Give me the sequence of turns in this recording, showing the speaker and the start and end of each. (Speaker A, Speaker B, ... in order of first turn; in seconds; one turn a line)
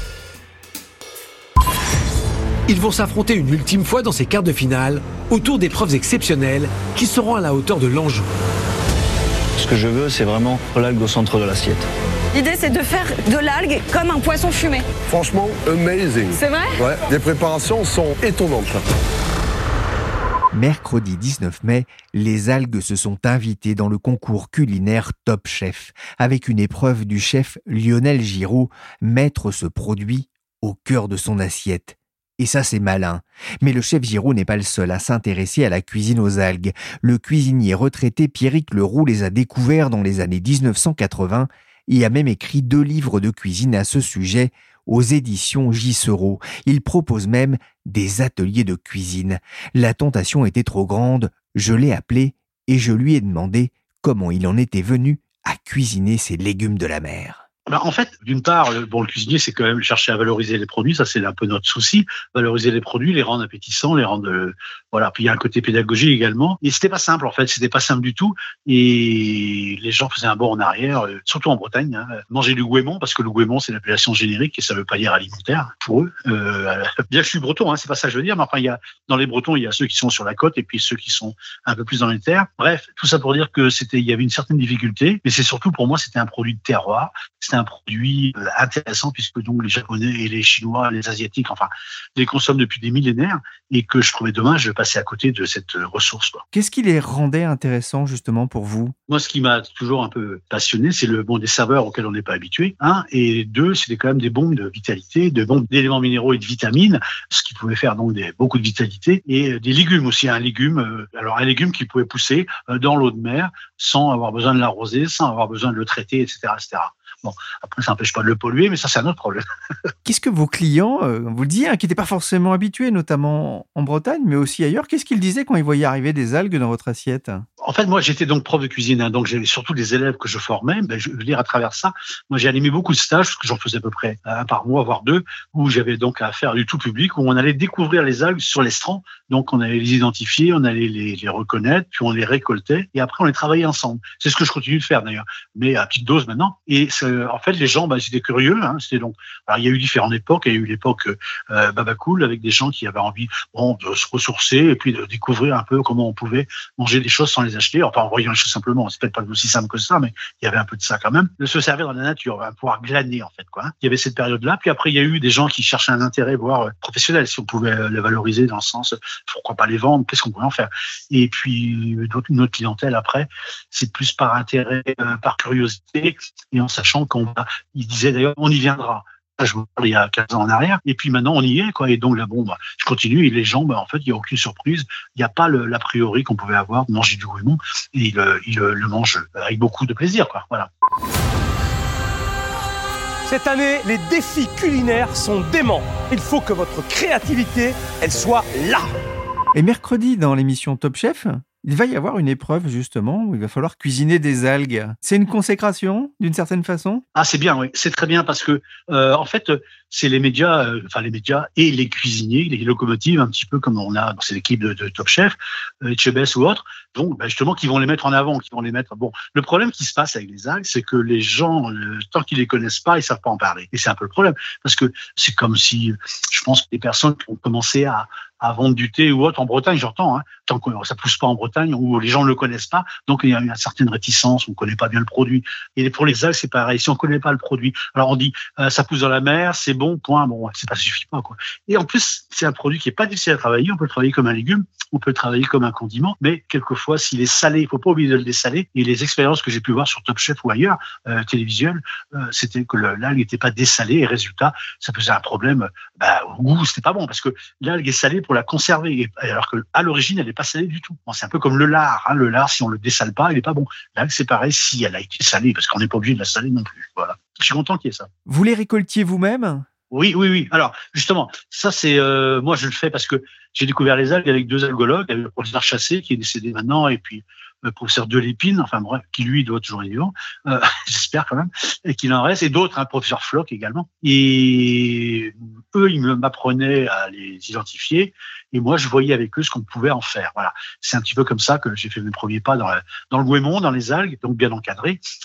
Speaker A: 2.7-8.3
Speaker B: 9.6-11.9
Speaker C: 12.3-14.9
Speaker D: 15.1-18.8
Speaker C: 16.3-16.8
Speaker E: 20.5-57.5
Speaker F: 57.7-96.4
Speaker E: 96.5-98.9
Speaker F: 99.1-119.5
Speaker E: 120.0-127.5
Speaker F: 127.6-190.7
Speaker G: 193.3-198.9
Speaker E: 199.5-207.0
Speaker F: 207.2-268.1
Speaker E: 268.3-269.7
Speaker F: 269.9-295.0